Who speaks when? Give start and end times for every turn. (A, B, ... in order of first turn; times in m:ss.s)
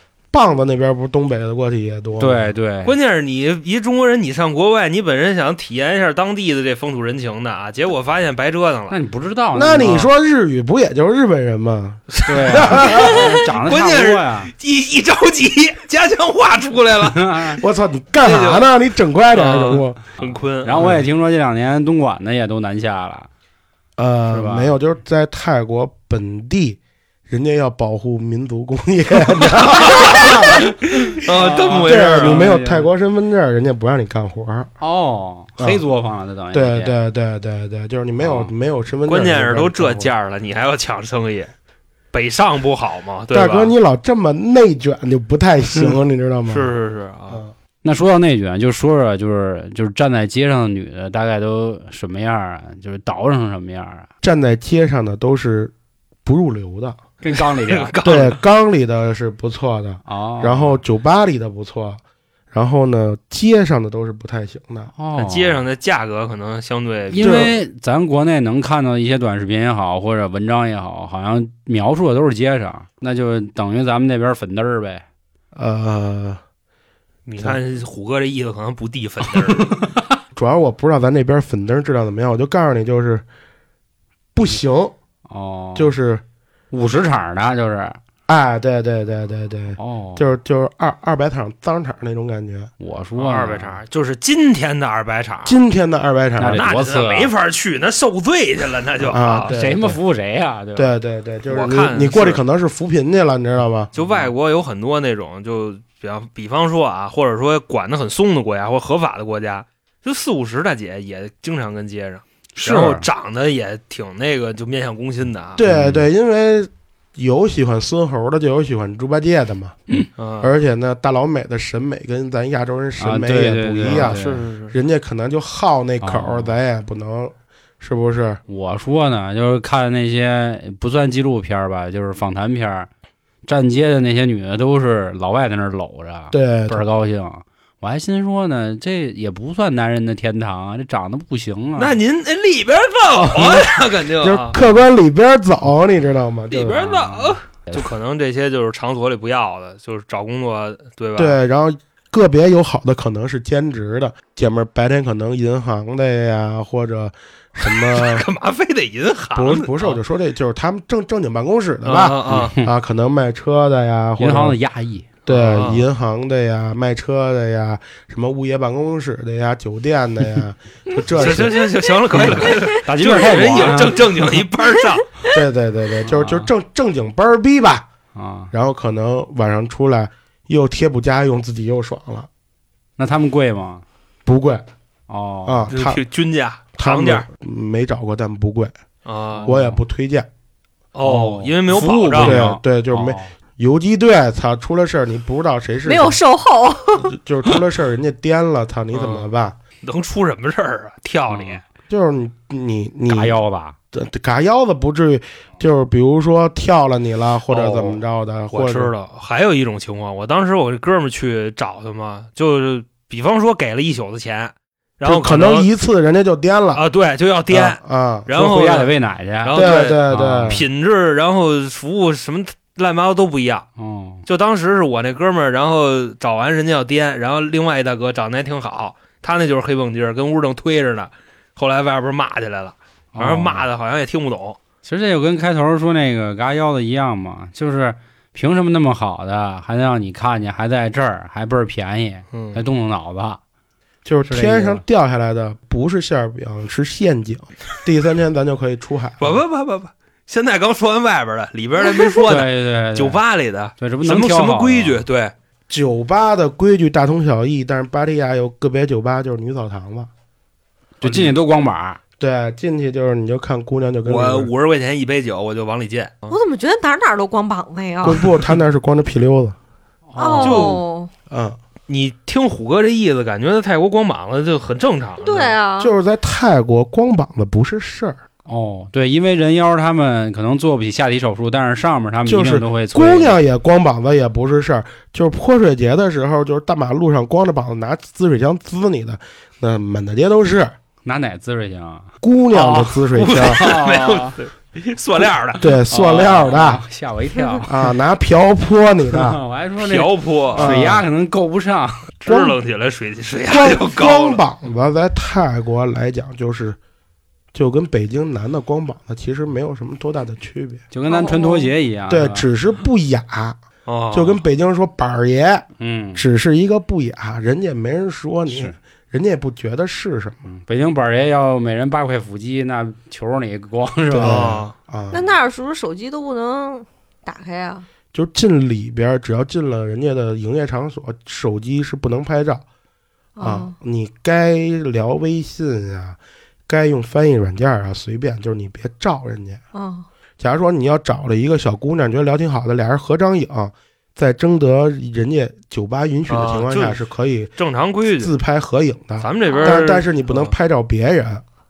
0:00.3-0:02.5 A
0:02.2-0:02.9 B
0:02.8-0:09.0 C
0:08.9-0:10.1 B
0:09.5-0:13.3 A
0:12.1-0:17.4 C
0:12.2-0:14.5 B
0:12.9-0:13.3 D
0:17.1-0:17.6 B
0:17.6-0:20.0 A
0:18.2-0:18.7 C
0:19.3-0:20.7 C
0:20.2-0:23.3 B
0:20.8-0:21.0 A
0:24.0-0:30.7 A
0:24.3-0:24.8 B
0:29.6-0:32.5 C
0:31.0-0:32.9 B
0:31.8-0:34.7 A
0:34.8-0:36.9 B
0:35.6-0:35.8 A
0:36.5-0:40.1 A
0:38.2-0:38.5 B
0:39.0-0:41.5 C
0:42.1-0:43.7 C
0:43.3-0:46.7 A
0:46.5-0:47.4 C
0:47.3-0:47.5 A
0:47.8-0:54.1 B
0:54.2-0:55.7 A
0:56.2-0:57.0 A
0:57.2-0:57.9 B
0:57.7-0:58.4 C
0:58.0-1:04.9 A
1:00.0-1:00.8 B
1:05.0-1:05.6 B
1:05.1-1:07.6 C
1:07.1-1:15.0 B
1:07.2-1:07.5 A
1:15.5-1:16.4 A
1:17.2-1:19.7 C
1:19.4-1:20.1 B
1:20.3-1:23.2 A
1:24.3-1:25.0 A
1:25.3-1:25.9 B
1:25.7-1:26.2 A
1:26.7-1:28.0 B
1:28.3-1:32.7 A
1:29.8-1:30.3 B
1:32.8-1:33.8 B
1:33.2-1:35.6 C
1:35.4-1:36.6 A
1:36.4-1:37.3 B
1:36.5-1:39.5 C
1:39.1-1:40.0 A
1:39.5-1:40.9 B
1:40.7-1:43.9 A
1:41.5-1:42.4 C
1:43.9-1:55.6 C
1:44.0-1:44.3 B
1:52.6-1:53.0 B
1:55.6-1:59.8 A
1:55.6-1:56.0 B
2:00.2-2:00.5 C
2:00.4-2:08.4 A
2:03.0-2:04.4 B
2:03.8-2:04.7 C
2:06.0-2:06.5 B
2:08.5-2:12.9 B
2:13.4-2:22.0 B
2:16.3-2:16.8 A
2:21.8-2:24.6 C
2:23.2-2:26.9 A
2:26.5-2:31.4 C
2:26.7-2:27.9 B
2:31.2-2:38.3 A
2:37.6-2:40.0 C
2:39.3-2:44.6 A
2:41.8-2:42.5 C
2:42.3-2:42.7 B
2:44.2-2:45.1 B
2:45.2-2:51.6 A
2:45.3-2:45.9 C
2:51.1-2:55.1 C
2:52.3-2:54.4 B
2:55.3-2:57.9 A
2:56.0-2:56.5 B
2:58.1-2:58.5 B
2:58.5-3:02.3 A
3:03.0-3:03.8 B
3:04.2-3:04.7 A
3:05.1-3:05.7 B
3:05.4-3:06.0 A
3:05.7-3:07.3 C
3:06.8-3:08.8 A
3:09.0-3:09.5 C
3:09.4-3:09.8 B
3:09.4-3:10.3 A
3:10.9-3:12.5 C
3:11.0-3:13.3 B
3:12.2-3:16.2 A
3:15.8-3:17.2 D
3:17.0-3:19.6 A
3:18.9-3:19.3 C
3:19.8-3:21.6 C
3:21.3-3:21.6 B
3:21.9-3:23.4 A
3:23.1-3:23.8 B
3:23.9-3:28.9 A
3:27.5-3:35.7 C
3:35.0-3:36.8 A
3:36.7-3:38.9 C
3:37.5-3:38.3 A
3:38.3-3:40.6 B
3:39.4-3:43.7 C
3:39.5-3:40.6 A
3:43.8-3:44.2 B
3:44.2-3:54.6 C
3:53.1-3:53.6 B
3:54.8-4:03.4 B
4:02.3-4:02.6 C
4:04.0-4:09.2 A
4:04.2-4:04.8 B
4:09.2-4:15.3 C
4:12.3-4:13.2 B
4:13.8-4:15.0 B
4:15.7-4:20.1 A
4:21.0-4:22.0 B
4:21.0-4:21.3 C
4:22.2-4:24.5 A
4:24.0-4:26.4 C
4:26.3-4:28.3 D
4:28.0-4:29.6 A
4:30.1-4:30.8 B
4:30.2-4:31.1 D
4:30.4-4:30.8 C
4:31.3-4:31.6 A
4:31.9-4:35.6 C
4:35.2-4:35.9 D
4:35.8-4:38.2 A
4:38.5-4:43.4 B
4:42.2-4:50.7 A
4:51.0-4:54.4 B
4:52.2-4:53.6 A
4:53.1-4:55.7 C
4:55.6-4:56.8 A
4:55.9-4:57.9 B
4:57.6-4:59.4 A
4:59.1-5:02.1 B
4:59.8-5:00.7 C
5:00.5-5:01.0 A
5:02.2-5:04.4 C
5:02.2-5:02.6 A
5:03.5-5:06.8 A
5:07.5-5:10.8 A
5:10.9-5:12.4 B
5:11.1-5:11.7 D
5:12.1-5:13.6 A
5:13.9-5:14.4 C
5:14.1-5:20.5 A
5:15.8-5:16.2 B
5:18.5-5:18.7 B
5:20.4-5:24.6 B
5:24.1-5:25.3 A
5:24.2-5:24.7 C
5:25.1-5:27.9 D
5:28.1-5:32.6 A
5:33.4-5:33.7 D
5:33.4-5:39.6 A
5:39.7-5:40.0 D
5:40.4-5:47.5 A
5:46.3-5:47.0 C
5:47.6-5:48.3 C
5:48.1-5:51.4 A
5:49.2-5:50.5 C
5:49.5-5:49.9 D